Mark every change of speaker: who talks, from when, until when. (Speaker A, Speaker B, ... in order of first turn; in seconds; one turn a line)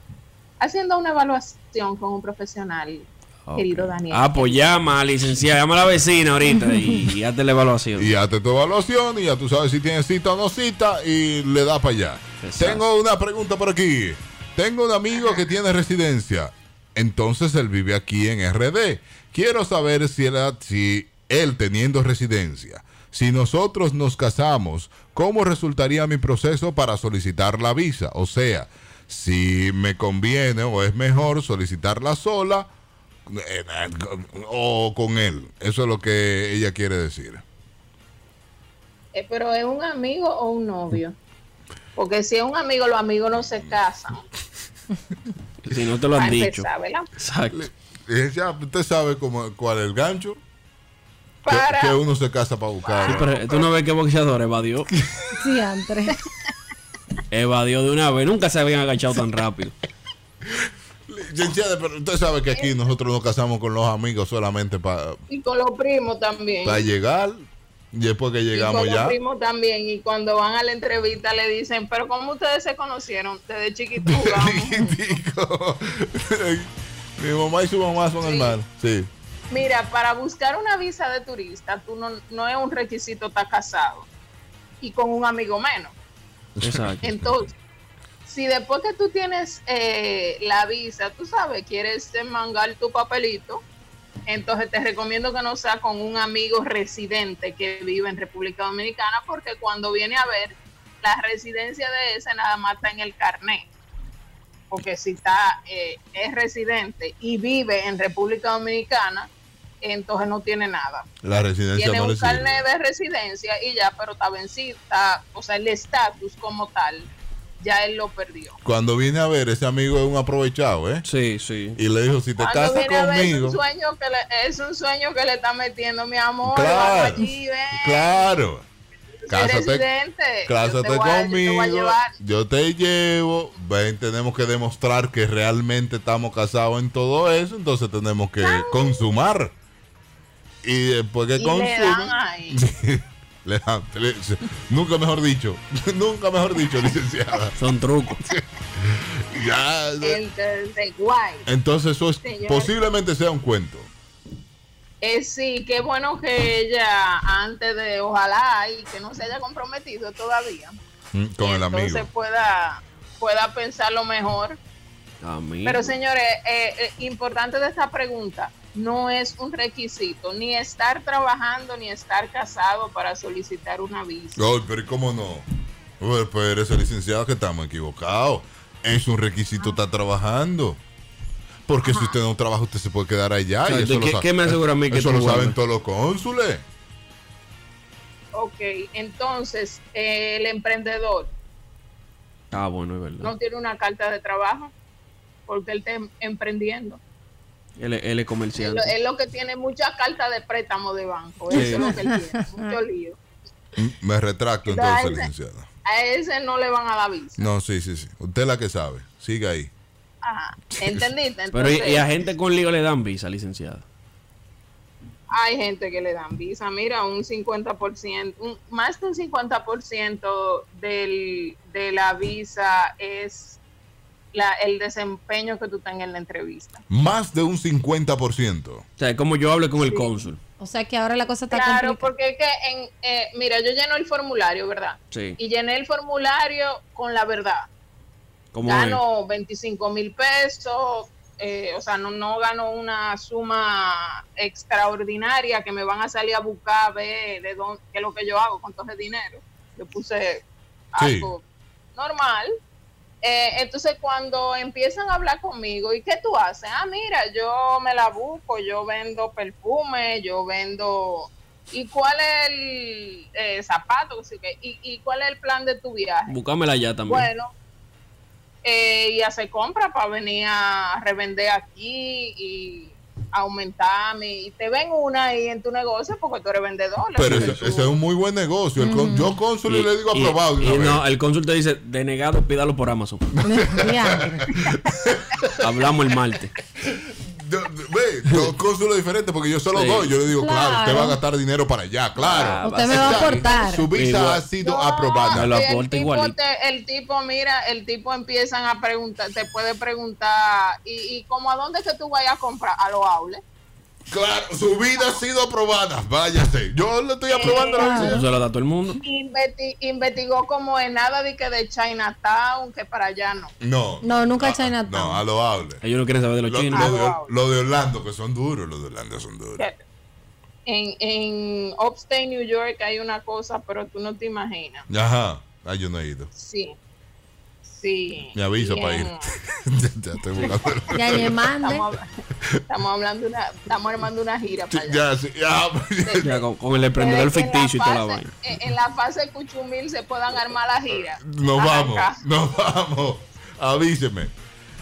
Speaker A: 0.6-4.6
Speaker B: 3.5-8.1
Speaker C: 8.0-32.7
Speaker B: 12.4-12.8
Speaker C: 33.3-37.4
Speaker A: 39.1-41.2
Speaker A: 42.0-44.2
Speaker C: 43.4-43.8
Speaker B: 45.6-47.6
Speaker A: 46.2-47.1
Speaker C: 47.5-50.4
Speaker A: 51.5-52.0
Speaker C: 51.5-53.3
Speaker A: 52.8-53.6
Speaker B: 53.1-54.9
Speaker C: 54.9-55.2
Speaker D: 55.4-56.2
Speaker B: 57.3-59.8
Speaker C: 61.1-65.2
Speaker A: 65.3-66.9
Speaker C: 66.7-69.2
Speaker A: 68.5-74.9
Speaker C: 74.0-79.1
Speaker A: 78.2-78.5
Speaker A: 79.5-84.1
Speaker A: 84.8-86.0
Speaker C: 86.6-87.3
Speaker B: 86.6-87.0
Speaker A: 87.0-87.5
Speaker A: 88.2-93.6
Speaker A: 94.3-103.7
Speaker A: 104.7-111.1
Speaker C: 111.2-112.6
Speaker A: 111.8-118.6
Speaker C: 118.7-121.0
Speaker B: 121.0-121.8
Speaker C: 121.8-123.6
Speaker A: 122.4-128.3
Speaker C: 126.4-128.7
Speaker A: 129.2-132.1
Speaker C: 129.3-129.9
Speaker C: 130.4-139.5
Speaker A: 138.4-139.1
Speaker C: 140.6-147.6
Speaker A: 141.4-142.6
Speaker B: 147.6-148.3
Speaker C: 148.3-150.2
Speaker A: 150.0-151.5
Speaker C: 151.5-153.9
Speaker A: 152.2-152.7
Speaker A: 155.0-160.8
Speaker C: 161.1-162.1
Speaker A: 161.4-164.6
Speaker B: 165.2-165.9
Speaker A: 165.7-174.4
Speaker C: 174.4-175.4
Speaker C: 176.0-180.8
Speaker C: 181.7-186.6
Speaker A: 181.9-182.2
Speaker B: 183.7-185.6
Speaker A: 188.3-191.3
Speaker B: 192.5-193.3
Speaker A: 193.2-194.7
Speaker A: 195.5-197.0
Speaker B: 197.8-198.9
Speaker A: 198.6-203.2
Speaker B: 201.5-202.0
Speaker D: 201.5-202.7
Speaker C: 203.8-205.7
Speaker A: 204.7-205.3
Speaker A: 205.8-207.5
Speaker C: 207.4-209.7
Speaker A: 210.2-212.1
Speaker C: 210.7-211.1
Speaker B: 211.5-213.8
Speaker A: 215.3-223.6
Speaker A: 224.3-226.8
Speaker C: 226.9-228.8
Speaker B: 229.0-230.4
Speaker A: 229.8-230.1
Speaker D: 230.6-232.1
Speaker A: 231.5-237.7
Speaker B: 235.1-235.4
Speaker B: 238.5-239.0
Speaker A: 238.6-251.4
Speaker C: 251.0-251.3
Speaker A: 251.9-252.6
Speaker A: 253.2-266.4
Speaker B: 266.3-267.3
Speaker A: 267.1-267.5
Speaker A: 268.6-277.9
Speaker C: 277.1-281.0
Speaker B: 277.2-277.6
Speaker D: 278.8-279.4
Speaker B: 279.7-283.3
Speaker C: 283.4-285.6
Speaker D: 283.4-284.4
Speaker B: 285.6-286.5
Speaker C: 286.8-295.5
Speaker B: 289.7-290.1
Speaker D: 290.3-291.2
Speaker B: 292.2-294.4
Speaker D: 292.6-293.9
Speaker A: 294.6-303.4
Speaker B: 295.3-296.3
Speaker C: 304.1-308.3
Speaker A: 307.3-308.2
Speaker D: 307.8-308.2
Speaker B: 307.9-309.0
Speaker A: 309.0-313.5
Speaker C: 313.6-315.8
Speaker D: 314.0-315.2
Speaker B: 315.8-316.9
Speaker C: 316.5-319.6
Speaker A: 316.7-317.3
Speaker A: 319.6-319.8
Speaker A: 320.7-324.9
Speaker C: 324.9-326.3
Speaker A: 326.3-326.8
Speaker A: 327.6-329.3
Speaker C: 328.3-331.3
Speaker D: 330.9-331.9
Speaker A: 331.6-332.1
Speaker A: 332.7-335.0
Speaker C: 334.7-336.4
Speaker A: 336.1-336.3
Speaker B: 336.2-338.3
Speaker A: 337.0-342.2
Speaker C: 341.2-344.3